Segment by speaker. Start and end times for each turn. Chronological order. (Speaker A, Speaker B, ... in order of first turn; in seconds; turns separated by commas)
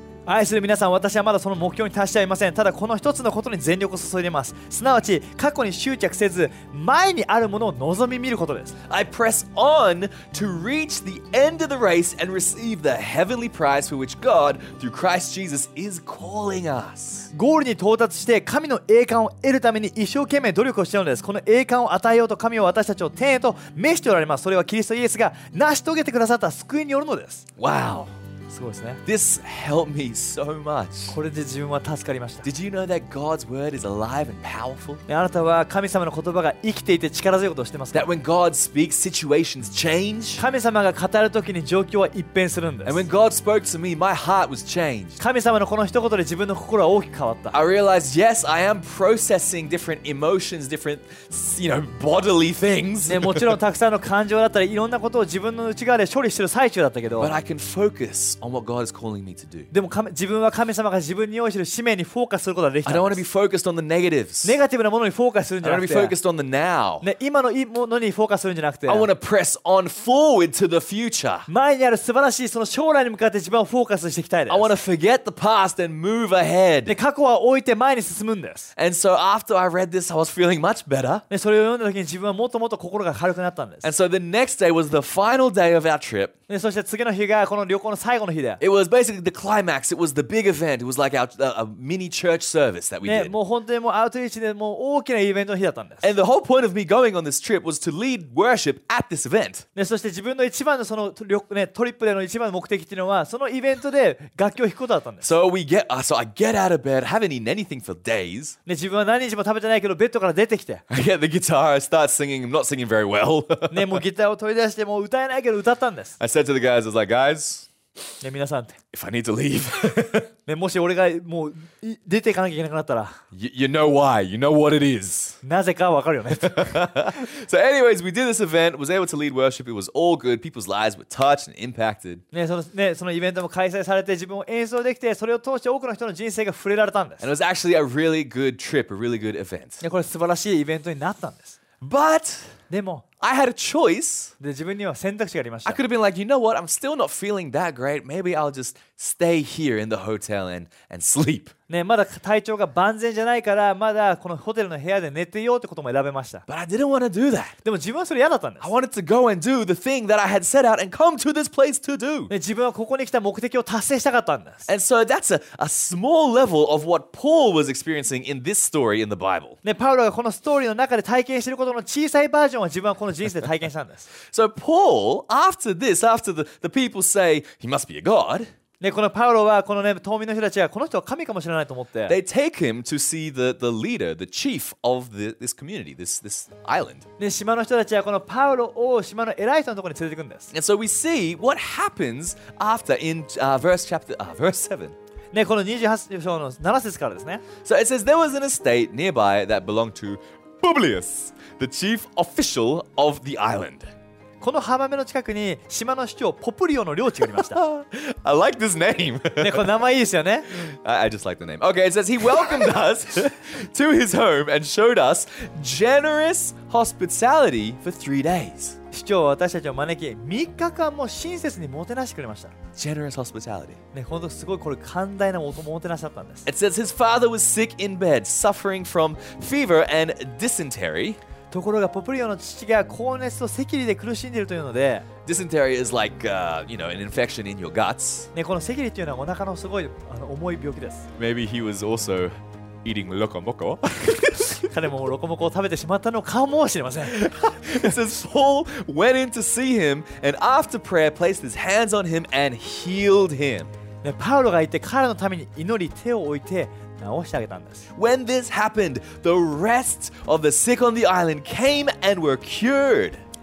Speaker A: 0.3-8.8, Speaker B: 8.9-17.3, Speaker A: 17.3-27.4, Speaker B: 27.6-28.1, Speaker A: 28.5-29.0, Speaker B: 29.1-31.2, Speaker A: 31.1-32.5, Speaker B: 32.4-35.0, Speaker A: 35.1-38.1, Speaker B: 37.9-40.4, Speaker A: 40.4-43.0, Speaker B: 42.9-45.2, Speaker A: 45.2-47.6, Speaker B: 47.5-53.5, Speaker A: 53.0-57.4, Speaker B: 57.2-59.7, Speaker A: 59.7-63.2, Speaker B: 62.9-64.6, Speaker A: 64.4-66.2, Speaker B: 65.6-67.0, Speaker A: 67.0-69.1, Speaker B: 68.9-71.5, Speaker A: 71.5-74.7, Speaker B: 74.5-77.0, Speaker A: 76.9-78.7, Speaker B: 78.8-81.2, Speaker A: 81.3-83.8, Speaker B: 83.8-86.3, Speaker A: 86.5-88.6, Speaker B: 88.6-93.3, Speaker A: 93.0-96.1, Speaker B: 96.0-99.7, Speaker A: 99.8-105.3, Speaker B: 105.2-108.6, Speaker A: 108.7-110.8, Speaker B: 110.9-114.0, Speaker A: 113.7-116.2, Speaker B: 116.2-117.7, Speaker A: 118.2-118.8, Speaker B: 118.9-120.3, Speaker A: 120.5-123.2, Speaker B: 123.3-125.4, Speaker A: 125.4-126.8, Speaker B: 126.4-132.2, Speaker A: 132.3-137.3, Speaker B: 137.2-139.8, Speaker A: 139.8-141.6, Speaker B: 141.8-142.6, Speaker A: 142.7-143.0, Speaker B: 143.2-144.3, Speaker A: 144.4-145.8, Speaker B: 145.7-151.5, Speaker A: 151.7-156.4, Speaker B: 156.5-157.6, Speaker A: 157.7-158.7, Speaker B: 158.6-162.3, Speaker A: 162.3-164.7, Speaker B: 164.7-169.6, Speaker A: 169.6-174.1, Speaker B: 174.3-178.5, Speaker A: 178.8-182.2, Speaker B: 182.1-187.1, Speaker A: 187.2-190.5, Speaker B: 190.5-194.9, Speaker A: 195.3-197.4, Speaker B: 197.7-203.9, Speaker A: 204.4-207.6, Speaker B: 207.3-209.8, Speaker A: 209.4-210.5, Speaker B: 210.5-218.8, Speaker A: 218.9-222.5, Speaker B: 222.8-223.8, Speaker A: 223.9-226.5, Speaker B: 226.5-231.2, Speaker A: 231.5-235.1, Speaker B: 235.3-238.3, Speaker A: 238.3-241.1, Speaker B: 241.2-244.7, Speaker A: 244.7-247.2, Speaker B: 247.1-253.7, Speaker A: 254.0-257.9, Speaker B: 258.0-263.2